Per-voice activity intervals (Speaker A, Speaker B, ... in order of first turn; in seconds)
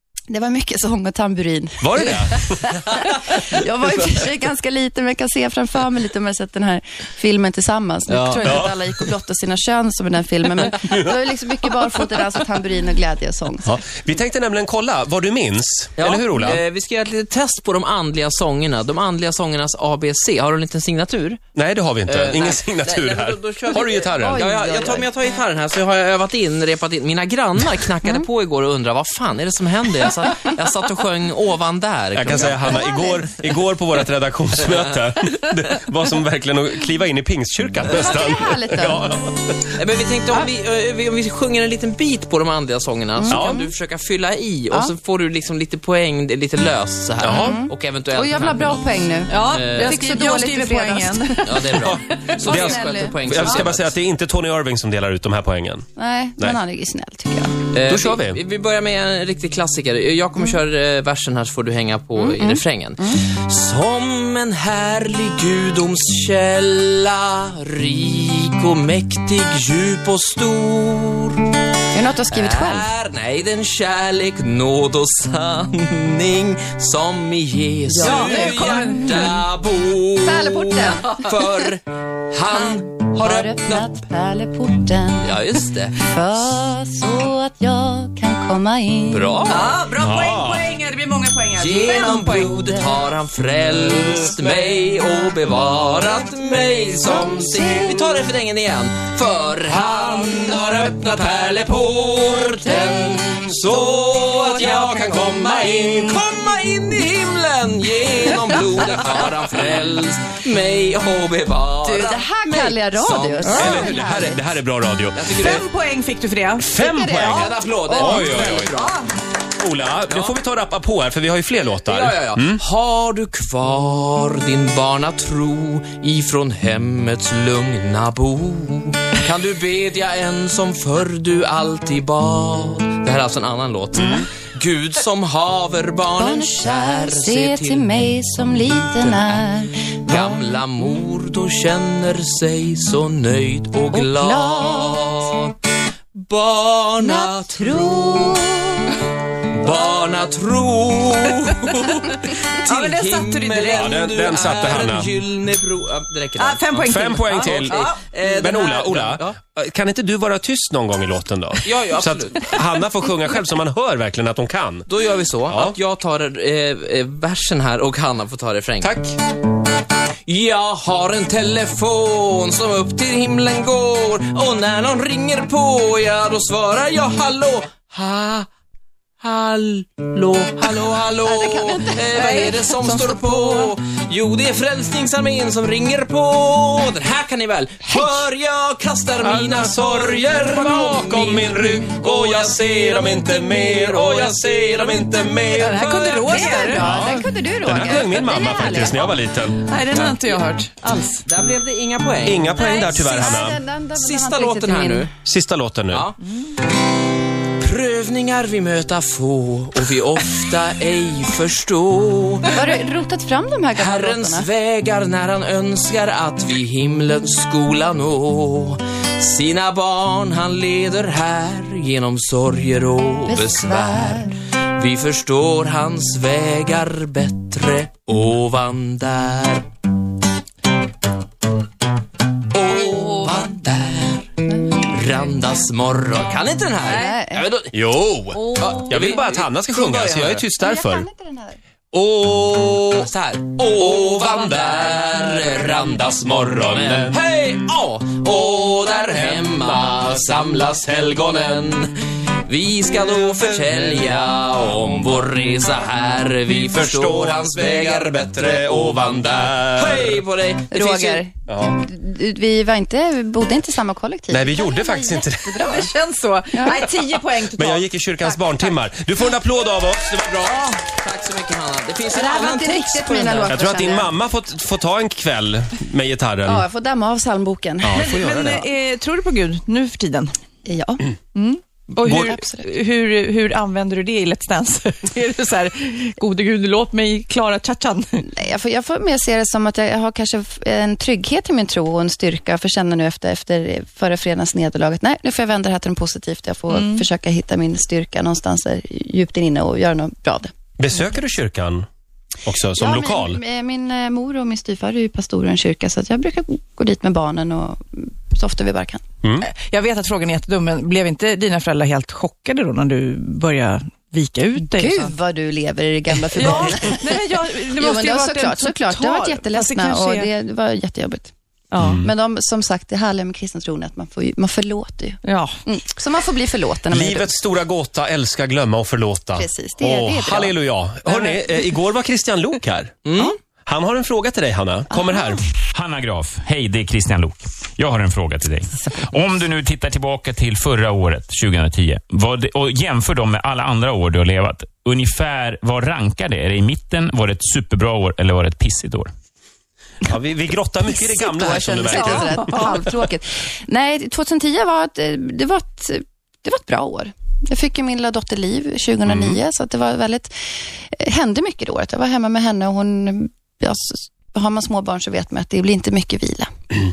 Speaker A: 0.3-13.8, 24.1-25.1, 32.6-33.2, 37.9-39.2, 43.1-43.7, 47.3-51.6, 52.5-53.1, 56.0-57.6, 62.1-63.2, 71.9-72.9, 78.0-79.3, 80.2-81.2, 83.2-85.4, 85.9-89.6, 92.3-92.9, 97.5-97.8, 111.8-114.4, 136.1-140.3, 143.9-145.2, 147.0-148.9, 181.2-183.7, 196.2-199.3, 202.5-205.1, 212.5-214.5, 223.2-224.3, 236.9-237.5, 240.6-241.6, 260.7-265.9, 266.5-266.8, 272.1-274.1, 276.4-278.1, 280.6-281.1, 282.0-282.7, 288.2-300.5, 302.8-309.0, 314.6-317.1, 317.8-321.3, 321.9-327.3, 329.4-330.6, 331.1-331.4, 334.9-335.4, 350.8-366.5
Speaker B: 1.8-2.8, 8.4-8.7, 13.6-16.6, 21.5-24.5, 32.1-39.7, 43.3-43.6, 47.2-47.6, 52.4-55.9, 57.9-58.4, 90.0-90.6, 113.5-115.4, 116.6-118.7, 119.6-122.6, 134.0-134.3, 153.7-155.1, 156.8-164.9, 165.5-165.8, 168.8-169.1, 189.2-195.7, 196.8-200.2, 202.2-203.6, 205.2-206.1, 237.7-241.1, 241.9-243.0, 246.6-247.1, 256.7-260.2, 261.5-261.8, 264.3-265.9, 267.4-270.7, 273.5-276.6, 277.8-278.7, 300.8-301.9, 302.4-303.4, 321.8-322.1, 326.9-332.9, 333.6-335.4, 350.1-352.7, 359.1-359.4
Speaker C: 8.1-8.5, 16.0-21.4, 22.1-32.8, 39.8-48.8, 49.4-49.9, 51.4-53.9, 57.7-71.5, 72.3-83.9, 85.2-86.0, 89.1-89.8, 91.5-113.8, 115.1-115.6, 117.2-119.0, 120.1-120.3, 121.8-145.5, 146.2-148.4, 149.6-159.3, 161.6-162.6, 164.9-168.9, 170.2-178.5, 179.2-196.6, 201.2-203.2, 203.9-205.1, 205.9-206.2, 207.6-212.6, 213.7-229.7, 232.5-237.7, 238.6-240.4, 243.0-261.2, 270.7-273.5, 333.1-333.3
Speaker D: 49.3-52.6, 77.9-79.3, 89.5-92.6, 113.4-113.9, 115.4-119.1, 152.6-154.4, 156.4-158.0, 182.1-182.6, 195.5-197.1, 199.6-201.2, 236.8-237.2, 238.3-239.2, 265.6-268.7, 270.4-270.8, 277.9-280.3, 281.3-288.2, 296.7-297.1, 309.4-315.1, 316.3-320.3, 321.7-322.0, 325.2-325.5, 351.9-352.8
Speaker E: 335.7-349.1